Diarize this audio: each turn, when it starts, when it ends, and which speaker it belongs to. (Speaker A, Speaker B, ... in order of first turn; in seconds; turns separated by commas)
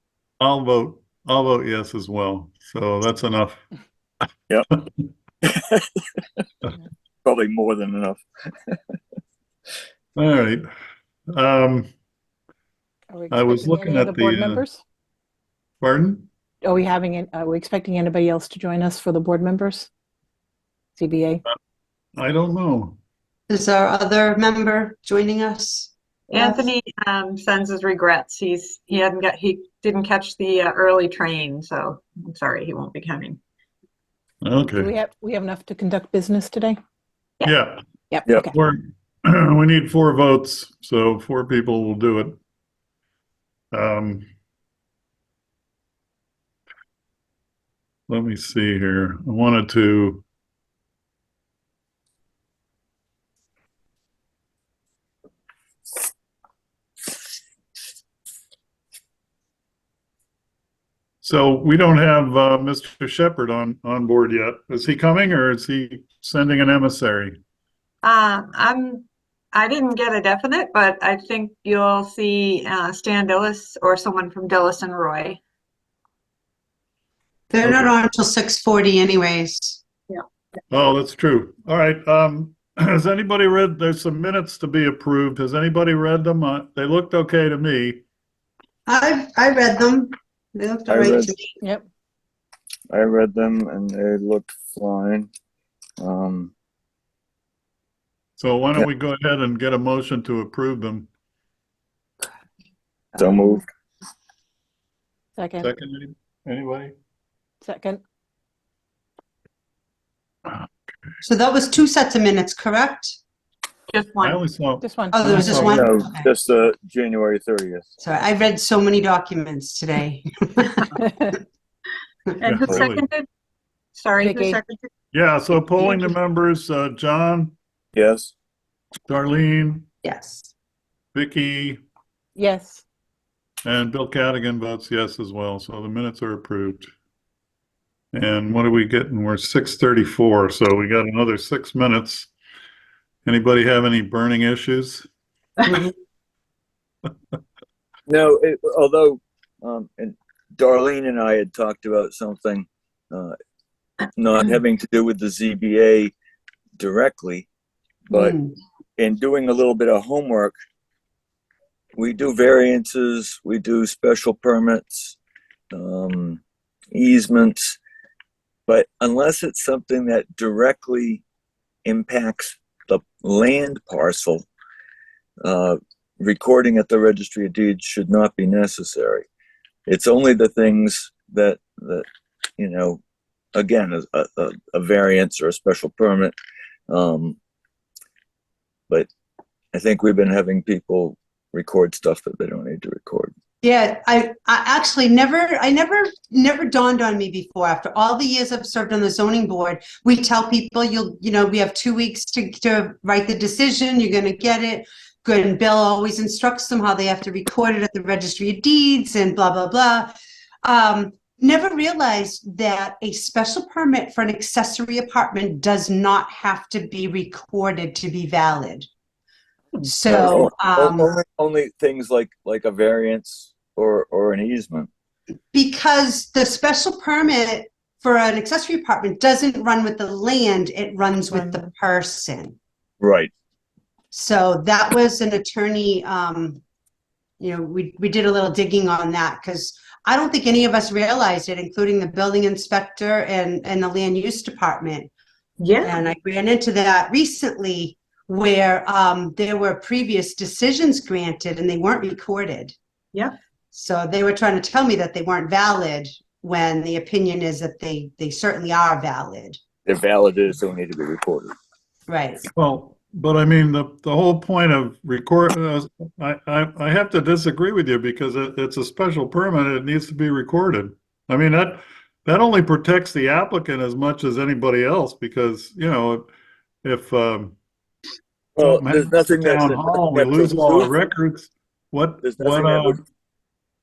Speaker A: 0.4-3.6, Speaker B: 5.4-6.0, Speaker B: 7.2-8.8, Speaker A: 10.2-10.7, Speaker A: 11.3-11.9, Speaker C: 13.1-14.8, Speaker A: 13.3-14.6, Speaker A: 15.8-16.3, Speaker C: 16.6-19.9, Speaker C: 21.0-21.4, Speaker A: 22.2-23.0, Speaker D: 23.5-26.7, Speaker E: 26.3-33.4, Speaker A: 34.4-34.9, Speaker C: 34.8-36.8, Speaker A: 37.4-37.8, Speaker C: 38.1-38.5, Speaker A: 38.5-42.4, Speaker A: 43.7-44.3, Speaker A: 48.1-50.2, Speaker A: 61.2-67.4, Speaker E: 68.0-75.4, Speaker D: 77.5-79.8, Speaker A: 77.7-77.9, Speaker A: 80.7-88.0, Speaker D: 88.9-91.5, Speaker B: 90.9-91.3, Speaker C: 91.6-91.9, Speaker B: 92.9-95.3, Speaker B: 96.0-96.5, Speaker A: 98.4-101.1, Speaker D: 103.2-103.6, Speaker B: 103.2-103.6, Speaker C: 105.4-105.7, Speaker A: 105.6-107.0, Speaker C: 107.6-108.0, Speaker D: 111.2-113.2, Speaker E: 113.9-114.4, Speaker A: 114.2-115.8, Speaker C: 114.8-115.8, Speaker D: 115.1-116.3, Speaker B: 115.6-117.9, Speaker D: 118.0-120.9, Speaker C: 121.0-121.2, Speaker E: 122.4-123.3, Speaker A: 122.4-123.0, Speaker E: 124.0-124.9, Speaker C: 124.2-124.6, Speaker A: 125.1-127.5, Speaker B: 127.9-128.3, Speaker A: 129.1-129.8, Speaker D: 130.0-130.5, Speaker A: 131.1-131.8, Speaker C: 132.3-132.8, Speaker A: 133.7-136.9, Speaker A: 138.1-142.3, Speaker A: 143.2-145.1, Speaker D: 145.7-145.9, Speaker B: 148.1-153.3, Speaker B: 154.2-156.1, Speaker B: 156.8-157.5, Speaker B: 158.1-158.4, Speaker D: 158.1-158.6, Speaker B: 159.0-160.6, Speaker B: 162.0-165.2, Speaker B: 165.7-166.4, Speaker B: 166.9-167.8, Speaker B: 168.7-171.2, Speaker B: 171.8-174.5, Speaker B: 175.4-179.3, Speaker B: 179.9-182.1, Speaker B: 182.6-183.0, Speaker B: 183.6-186.3, Speaker B: 186.9-187.4, Speaker B: 189.7-193.3, Speaker D: 193.6-210.1, Speaker D: 210.6-218.9, Speaker D: 219.8-221.1, Speaker B: 220.1-224.9, Speaker D: 225.5-232.6, Speaker B: 233.0-233.3, Speaker D: 234.1-236.6, Speaker D: 237.4-245.1, Speaker E: 245.6-246.0, Speaker D: 245.8-252.7, Speaker D: 253.7-259.6, Speaker B: 259.9-261.5, Speaker D: 262.1-262.4, Speaker A: 262.6-276.3, Speaker A: 276.8-277.6, Speaker B: 278.6-280.9, Speaker A: 278.6-283.0, Speaker B: 282.2-283.0